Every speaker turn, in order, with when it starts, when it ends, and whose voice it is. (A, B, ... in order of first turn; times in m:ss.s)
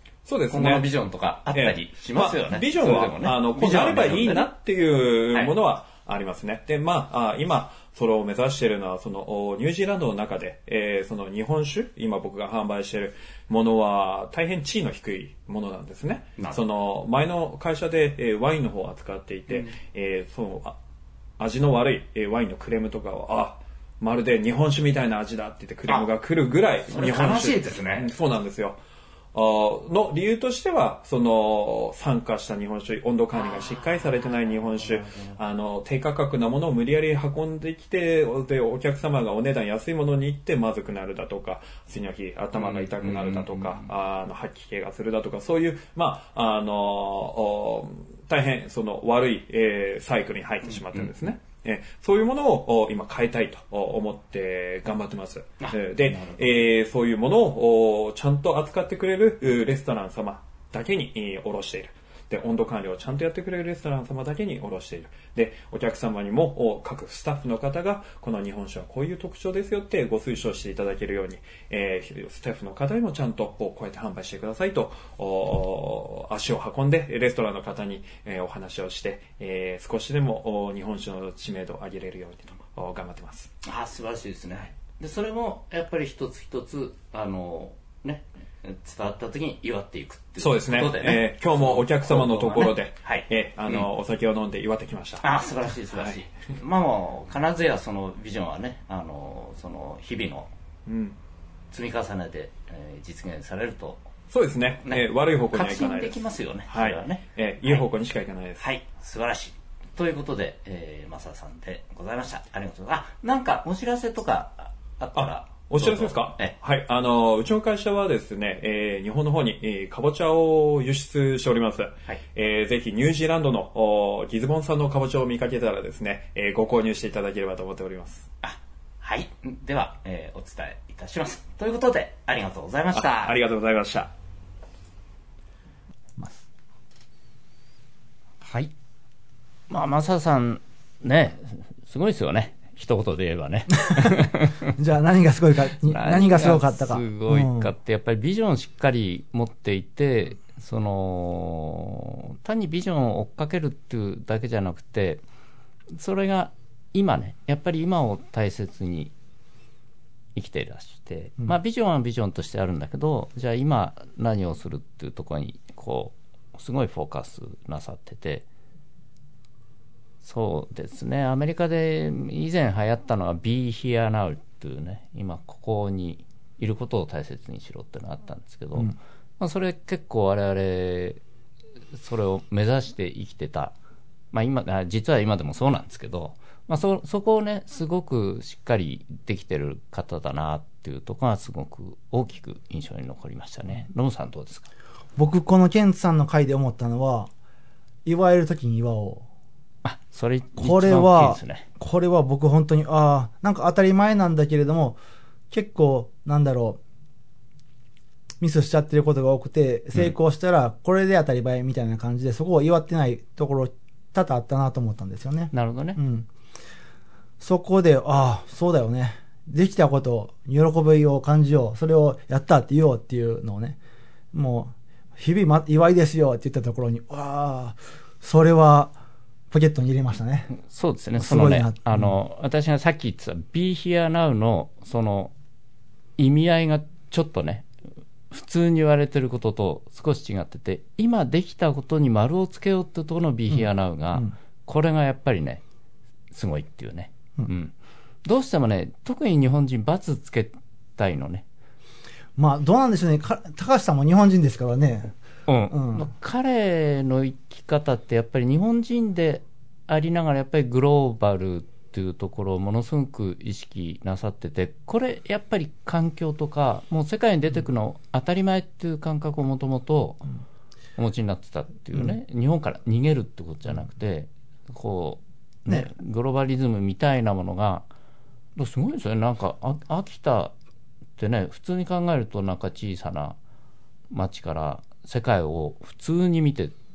0:00.2-0:00.9 A
0:00.5-0:04.5 B
0:01.5-0:20.8 A
0:21.4-0:28.8 A
0:26.9-0:28.1 B
0:29.3-1:23.5 A
0:33.3-0:35.4 B
0:42.5-0:43.9 B
0:50.7-0:51.1 B
0:55.6-0:56.7 B
1:23.6-1:33.9 B
1:30.4-1:36.3 A
1:35.2-1:40.5 B
1:40.8-1:41.2 A
1:41.7-1:44.1 B
1:44.3-1:48.6 A
1:44.8-1:47.8 B
1:48.6-1:56.5 B
1:55.1-2:08.3 A
2:08.4-2:13.3 B
2:12.9-2:14.1 A
2:16.2-2:16.4 C
2:18.4-2:18.7 B
2:19.7-2:24.7 B
2:24.8-2:27.7 C
2:25.8-2:35.2 B
2:35.9-2:39.1 B
2:40.3-2:48.4 B
2:50.2-3:01.2 B
3:01.9-3:03.8 B
3:04.3-3:14.7 B
3:15.2-3:17.3 C
3:18.0-3:19.3 C
3:19.8-3:21.6 B
3:20.6-3:25.0 C
3:25.5-3:26.8 C
3:28.4-3:36.3 C
3:35.5-3:36.0 B
3:37.4-3:43.8 C
3:44.3-3:48.9 C
3:49.5-3:50.5 C
3:50.6-3:55.3 B
3:51.2-3:52.1 C
3:56.2-3:57.7 B
3:58.3-4:05.6 B
4:03.5-4:04.3 C
4:06.3-4:07.7 B
4:08.2-4:11.4 B
4:12.4-4:15.2 C
4:15.5-4:30.3 B
4:15.7-4:16.1 C
4:31.0-4:37.8 B
4:38.6-4:40.5 B
4:41.2-4:43.4 B
4:44.1-4:46.7 B